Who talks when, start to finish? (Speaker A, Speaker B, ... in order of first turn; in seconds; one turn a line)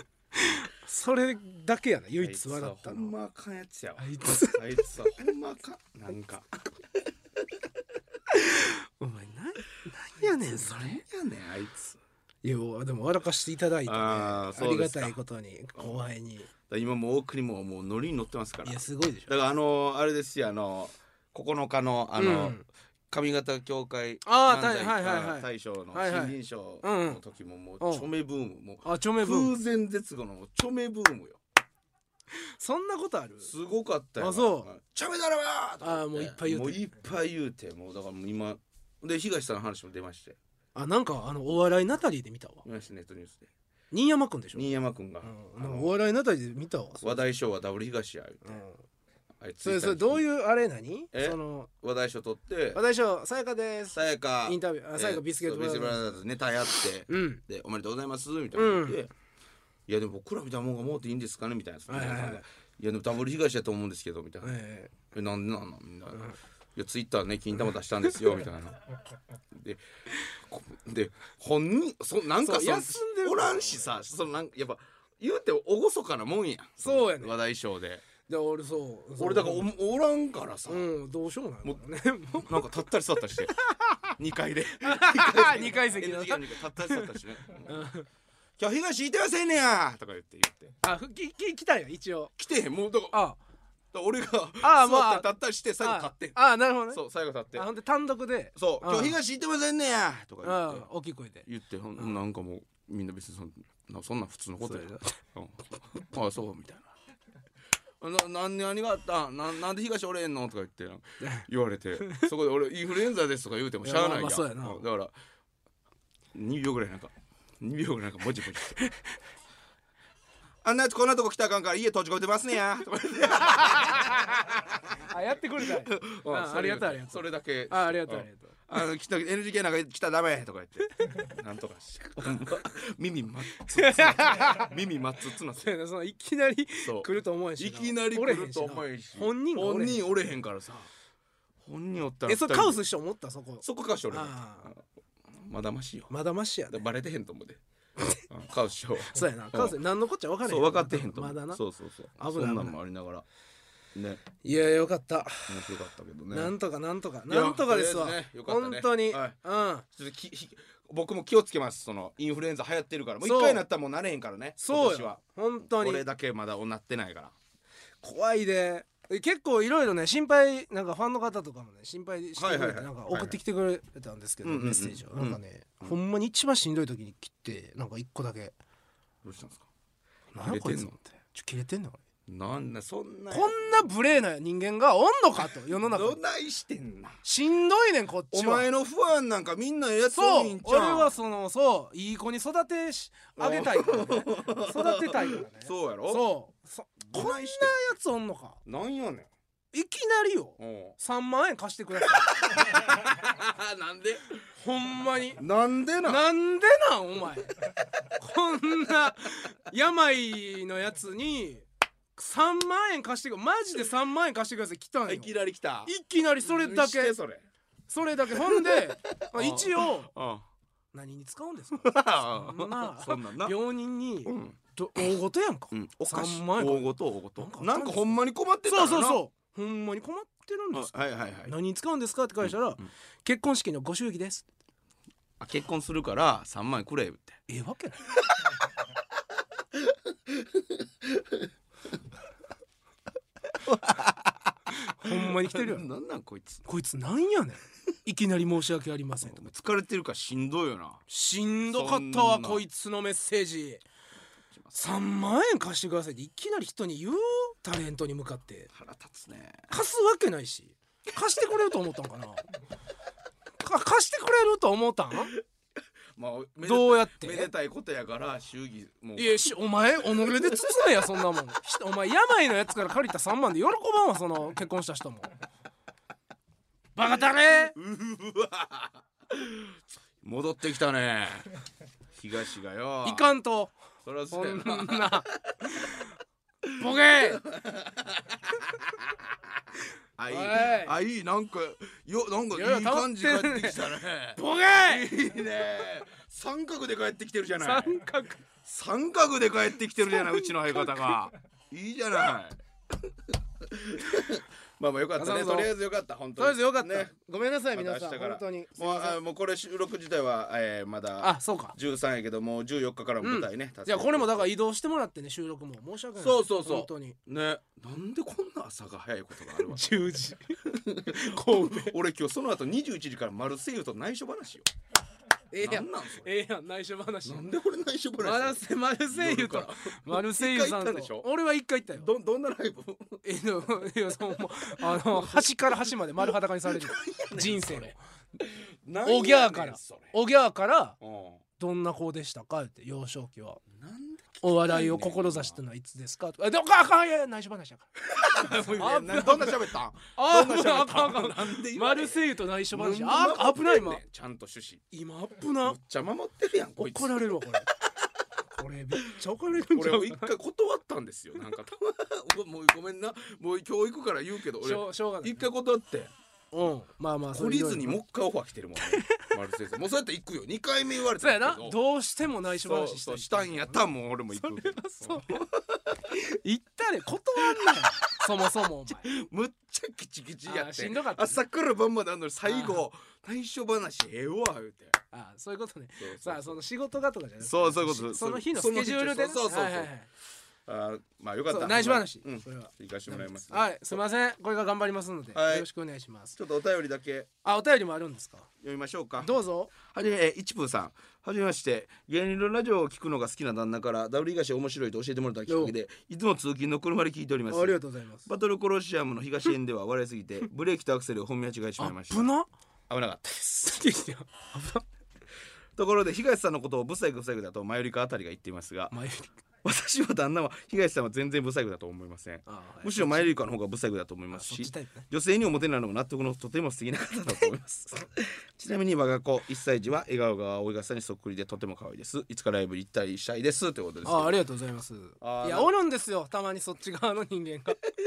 Speaker A: 0.3-3.1
Speaker B: 2.2-6.5
Speaker A: 4.0-4.6
Speaker A: 8.3-11.0
Speaker B: 10.4-12.0
Speaker A: 12.4-16.5
Speaker B: 13.9-15.2
Speaker B: 16.7-31.4
Speaker A: 18.6-19.3
Speaker A: 22.2-22.6
Speaker A: 24.2-27.2
Speaker A: 27.8-28.1
Speaker A: 28.8-29.6
Speaker A: 32.6-33.5
Speaker B: 33.4-40.4
Speaker A: 34.2-34.7
Speaker A: 35.8-36.8
Speaker A: 40.8-42.6
Speaker B: 42.6-43.5
Speaker A: 43.9-44.7
Speaker B: 44.5-45.9
Speaker A: 45.2-47.2
Speaker B: 47.0-48.6
Speaker A: 48.5-48.8
Speaker B: 49.4-50.2
Speaker A: 49.6-51.7
Speaker B: 51.1-52.8
Speaker A: 52.7-56.0
Speaker B: 53.9-59.1
Speaker A: 57.1-57.4
Speaker A: 58.5-59.0
Speaker B: 59.9-64.6
Speaker A: 61.9-62.5
Speaker A: 64.4-64.9
Speaker B: 65.1-68.8
Speaker B: 69.5-69.8
Speaker B: 70.3-78.0
Speaker A: 72.4-74.0
Speaker A: 76.8-77.4
Speaker A: 78.3-79.7
Speaker B: 79.2-80.9
Speaker A: 80.7-82.8
Speaker B: 82.4-87.8
Speaker A: 84.8-87.2
Speaker A: 87.7-88.1
Speaker B: 88.6-90.7
Speaker A: 90.8-92.3
Speaker B: 92.4-93.2
Speaker A: 93.1-93.4
Speaker B: 93.9-97.7
Speaker A: 94.6-97.0
Speaker A: 97.5-99.2
Speaker B: 98.6-100.9
Speaker A: 100.4-101.5
Speaker B: 101.5-106.9
Speaker A: 104.6-105.2
Speaker B: 108.0-115.1
Speaker A: 112.0-112.3
Speaker A: 113.8-114.8
Speaker B: 116.3-118.8
Speaker B: 120.6-125.0
Speaker A: 125.1-128.6
Speaker B: 125.6-135.7
Speaker A: 133.7-134.7
Speaker A: 135.6-140.1
Speaker B: 136.8-140.9
Speaker B: 141.6-142.8
Speaker A: 142.3-144.7
Speaker B: 143.6-146.1
Speaker A: 146.1-146.8
Speaker B: 146.7-147.6
Speaker B: 148.3-149.8
Speaker A: 149.1-151.6
Speaker B: 150.4-153.2
Speaker A: 152.2-152.8
Speaker B: 153.9-154.2
Speaker A: 154.4-155.5
Speaker B: 155.5-156.5
Speaker A: 156.3-159.8
Speaker B: 157.3-159.4
Speaker B: 159.9-167.3
Speaker A: 163.2-163.6
Speaker A: 164.6-166.0
Speaker A: 168.0-178.6
Speaker B: 172.4-173.4
Speaker B: 174.4-176.0
Speaker B: 179.2-179.7
Speaker A: 180.3-182.0
Speaker B: 180.4-181.0
Speaker B: 182.3-183.8
Speaker A: 183.3-186.2
Speaker B: 185.8-187.2
Speaker A: 187.2-188.7
Speaker B: 188.3-191.1
Speaker A: 190.1-198.6
Speaker B: 193.4-196.3
Speaker B: 197.1-197.8
Speaker B: 198.7-199.3
Speaker A: 199.7-202.7
Speaker B: 200.6-201.0
Speaker B: 202.0-204.3
Speaker A: 204.6-205.4
Speaker B: 205.4-206.2
Speaker A: 206.0-207.6
Speaker A: 208.1-211.7
Speaker A: 212.2-217.2
Speaker B: 215.1-215.9
Speaker B: 216.4-217.4
Speaker A: 217.9-220.1
Speaker B: 218.3-220.5
Speaker A: 220.9-230.9
Speaker B: 221.8-223.6
Speaker B: 224.2-224.6
Speaker B: 225.7-229.2
Speaker B: 230.7-231.6
Speaker A: 231.4-234.5
Speaker B: 232.4-232.9
Speaker B: 235.4-237.4
Speaker A: 237.5-238.1
Speaker B: 240.3-241.4
Speaker B: 243.6-244.4
Speaker A: 244.8-245.9
Speaker B: 245.0-246.6
Speaker A: 246.7-249.5
Speaker B: 249.2-251.0
Speaker A: 251.1-253.8
Speaker B: 251.7-252.7
Speaker A: 254.7-258.7
Speaker B: 258.7-259.7
Speaker A: 259.7-262.5
Speaker A: 263.6-265.3
Speaker B: 266.2-271.0
Speaker A: 266.6-267.5
Speaker A: 269.2-275.3
Speaker A: 277.0-277.8
Speaker B: 277.7-281.5
Speaker B: 282.1-283.3
Speaker A: 283.0-283.8
Speaker B: 284.1-285.9
Speaker A: 284.3-286.0
Speaker B: 286.7-289.4
Speaker A: 286.8-287.4
Speaker B: 290.2-298.0
Speaker A: 290.3-291.0
Speaker A: 292.5-295.1
Speaker A: 297.6-298.4
Speaker B: 298.6-307.1
Speaker A: 300.1-300.9
Speaker A: 305.2-305.8
Speaker A: 306.4-309.2
Speaker B: 307.7-314.5
Speaker A: 311.2-311.8
Speaker A: 313.2-317.2
Speaker B: 316.2-324.7
Speaker A: 319.6-322.0
Speaker A: 325.5-327.5
Speaker B: 325.6-326.3
Speaker B: 327.2-331.3
Speaker A: 328.2-332.1
Speaker B: 331.9-333.2
Speaker A: 333.2-338.0
Speaker B: 334.8-335.9
Speaker B: 336.7-340.1
Speaker A: 339.0-341.0
Speaker B: 341.0-341.4
Speaker A: 341.6-343.6
Speaker B: 343.7-345.6
Speaker A: 344.4-354.0
Speaker B: 348.1-354.8
Speaker A: 354.9-355.8
Speaker B: 355.6-357.4
Speaker A: 356.8-357.7
Speaker A: 358.6-360.3
Speaker B: 359.6-366.1
Speaker A: 364.6-365.5
Speaker A: 366.5-368.0
Speaker B: 367.3-371.8
Speaker A: 368.8-369.3
Speaker A: 371.2-375.4
Speaker B: 372.5-376.0
Speaker A: 376.1-379.1
Speaker B: 377.5-377.9
Speaker B: 378.9-385.0
Speaker A: 380.5-381.4
Speaker A: 382.5-382.8
Speaker A: 385.1-390.1
Speaker B: 386.0-386.6
Speaker B: 387.4-389.9
Speaker B: 390.7-394.0
Speaker A: 391.5-396.4
Speaker B: 395.3-395.7
Speaker B: 396.4-397.3
Speaker A: 397.4-398.5
Speaker B: 398.6-412.3
Speaker A: 399.2-399.7
Speaker A: 405.5-405.7
Speaker A: 407.5-408.3
Speaker A: 411.8-412.5
Speaker B: 412.9-413.7
Speaker A: 413.4-414.9
Speaker B: 415.8-418.9
Speaker A: 418.9-419.3
Speaker B: 419.6-434.4
Speaker A: 422.5-423.4
Speaker A: 424.3-425.1
Speaker A: 434.1-437.8
Speaker B: 435.2-435.7